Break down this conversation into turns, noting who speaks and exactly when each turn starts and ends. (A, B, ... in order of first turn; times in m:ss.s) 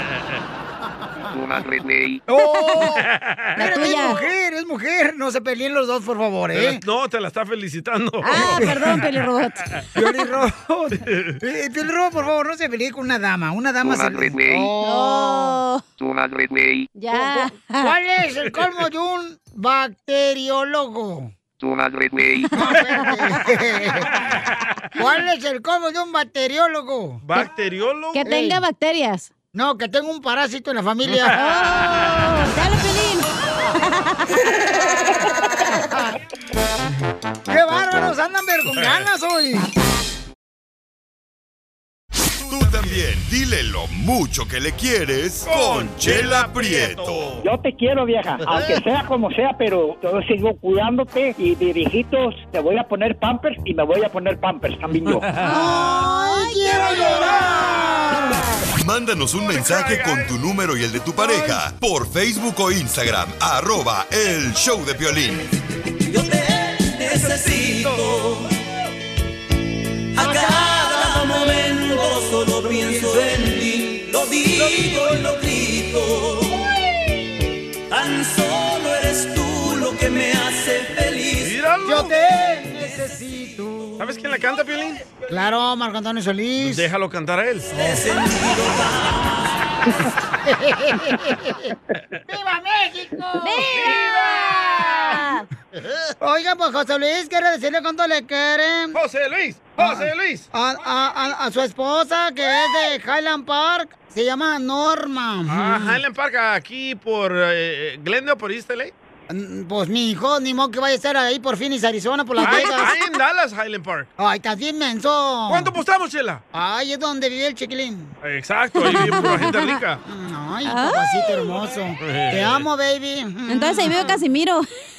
0:01.3-0:02.2 A
0:02.3-0:06.8 B
0:03.1-0:03.6 C
0:03.6-0:04.3 D
0:06.5-0:08.9 C
0:08.2-0:09.7 D
0:08.4-0:08.9 B
0:10.0-0:15.6 B
0:11.1-0:11.4 C
0:13.8-0:14.7 A
0:14.8-0:15.8 D
0:16.0-0:16.9 A
0:16.9-0:17.9 D
0:17.1-0:21.3 B
0:21.6-0:22.5 A
0:22.5-0:24.1 B
0:25.0-0:27.2 B
0:27.2-0:28.2 C
0:28.1-0:29.3 D
0:28.2-0:28.6 B
0:29.5-0:31.4 B
0:31.3-0:34.4 D
0:37.5-0:39.7 B
0:42.5-0:43.0 C
0:42.5-0:47.4 E
0:45.4-0:47.4 C
0:47.4-0:55.3 F
0:55.4-0:57.6 D
0:55.4-0:58.5 B
0:58.8-1:05.5 E
0:59.4-1:00.3 C
1:06.1-1:08.5 G
1:10.2-1:16.6 G
1:17.9-1:21.5 G
1:21.4-1:22.1 C
1:21.8-1:24.2 B
1:24.0-1:25.0 C
1:25.3-1:26.9 B
1:26.6-1:27.7 C
1:27.7-1:29.5 G
1:30.4-1:31.7 B
1:32.3-1:35.2 B
1:33.4-1:34.0 D
1:33.7-1:34.9 C
1:34.8-1:35.5 D
1:36.2-1:39.0 B
1:38.9-1:40.5 C
1:39.8-1:46.0 B
1:45.5-1:48.9 C
1:49.3-1:52.9 B
1:52.4-1:54.1 C
1:52.4-1:53.1 D
1:54.2-1:55.7 B
1:55.5-1:56.4 C
1:56.5-1:58.2 B
1:58.2-2:00.0 C
1:58.8-1:59.8 D
2:00.1-2:04.2 B
2:00.7-2:01.5 D
2:02.0-2:02.7 C
2:03.5-2:04.7 D